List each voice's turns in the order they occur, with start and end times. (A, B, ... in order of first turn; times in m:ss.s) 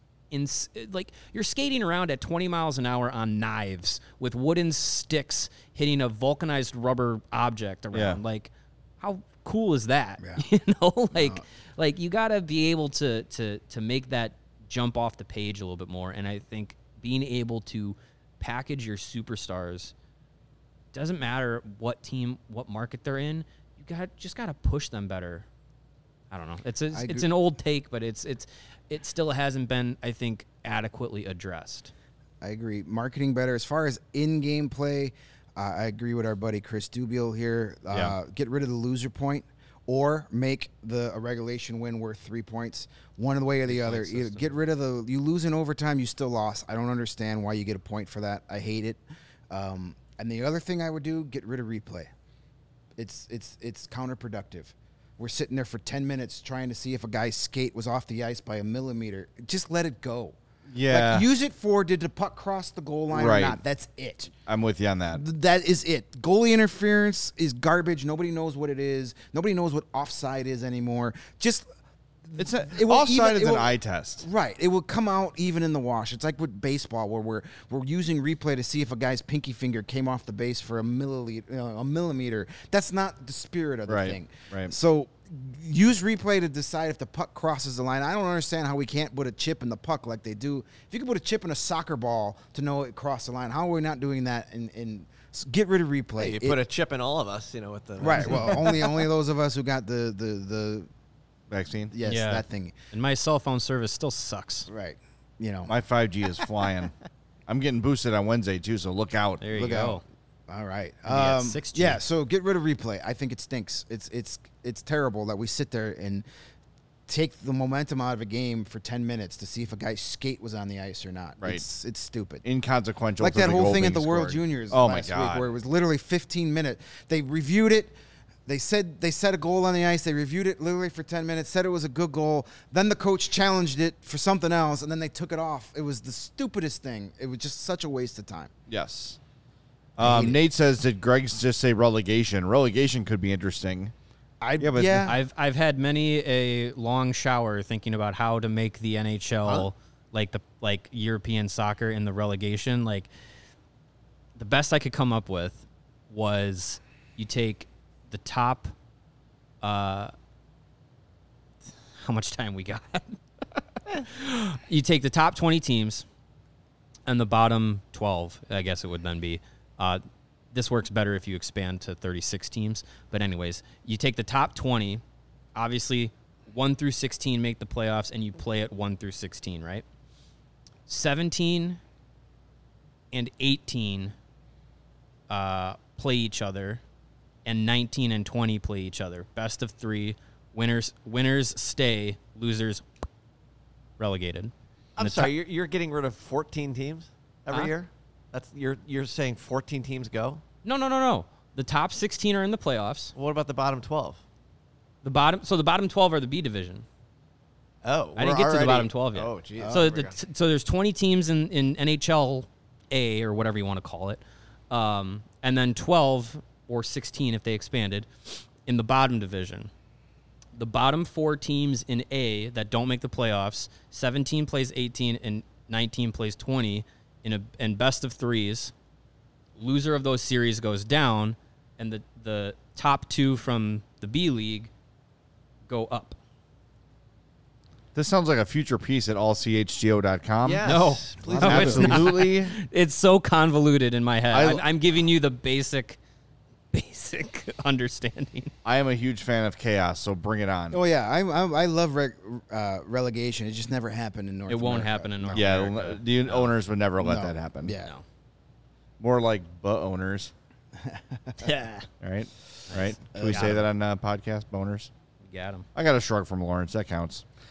0:00.3-0:19.9 A
0:07.9-0:08.2 B
0:10.2-0:10.4 C
0:11.1-0:11.4 C
0:20.9-0:25.5 A
0:26.3-0:31.9 A
0:26.9-0:27.3 C
0:32.4-0:52.1 C
0:37.9-0:38.2 B
0:43.6-0:44.6 A
0:53.0-1:04.3 C
1:00.7-1:01.3 B
1:03.1-1:03.6 B
1:04.5-1:05.2 B
1:05.1-1:11.6 C
1:12.2-1:36.6 C
1:12.4-1:14.3 B
1:23.9-1:24.7 B
1:36.2-1:39.1 D
1:38.0-1:40.9 C
1:41.5-1:41.9 B
1:41.9-1:42.7 C
1:42.0-1:44.7 A
1:44.7-1:45.7 C
1:45.7-1:46.9 B
1:47.5-1:49.4 B
1:49.4-1:50.0 A
1:49.5-1:56.2 C
1:51.1-1:52.0 A
1:57.1-2:02.4 C
2:02.4-2:05.5 B
2:03.2-2:07.9 C
2:08.5-2:18.5 C
2:18.7-2:19.2 B
2:20.0-2:23.9 B
2:20.0-2:20.4 C
2:24.4-2:25.2 C
2:24.6-2:25.2 B
2:25.0-2:33.1 A
2:34.4-2:38.7 A
2:39.6-2:40.1 A
2:42.0-2:43.2 A
2:44.0-2:46.0 A
2:47.0-2:55.0 A
2:55.5-2:59.8 A
3:00.9-3:01.8 A
3:03.1-3:04.1 A
3:05.3-3:06.8 A
3:07.4-3:12.8 A
3:14.0-3:15.3 A
3:15.0-3:20.4 D
3:20.6-3:23.1 A
3:23.1-3:24.2 D
3:25.0-3:26.8 A
3:27.8-3:28.4 D
3:28.1-3:38.1 A
3:28.2-3:28.9 B
3:29.1-3:30.1 D
3:29.6-3:29.8 C
3:38.6-3:39.7 A
3:40.6-3:48.7 A
3:49.6-3:54.7 A
3:55.7-3:56.2 A
3:57.9-4:00.7 B
4:00.4-4:02.2 D
4:00.6-4:06.0 A
4:01.2-4:02.5 B
4:01.3-4:01.9 C
4:04.3-4:04.6 B
4:06.7-4:08.5 A
4:08.6-4:10.8 B
4:10.7-4:15.6 C
4:14.5-4:16.5 A
4:15.3-4:17.8 B
4:17.0-4:17.9 C
4:19.0-4:20.3 B
4:20.7-4:21.8 C
4:22.0-4:24.9 B
4:22.7-4:23.6 A
4:23.1-4:23.6 C
4:25.2-4:25.6 A
4:25.7-4:27.2 B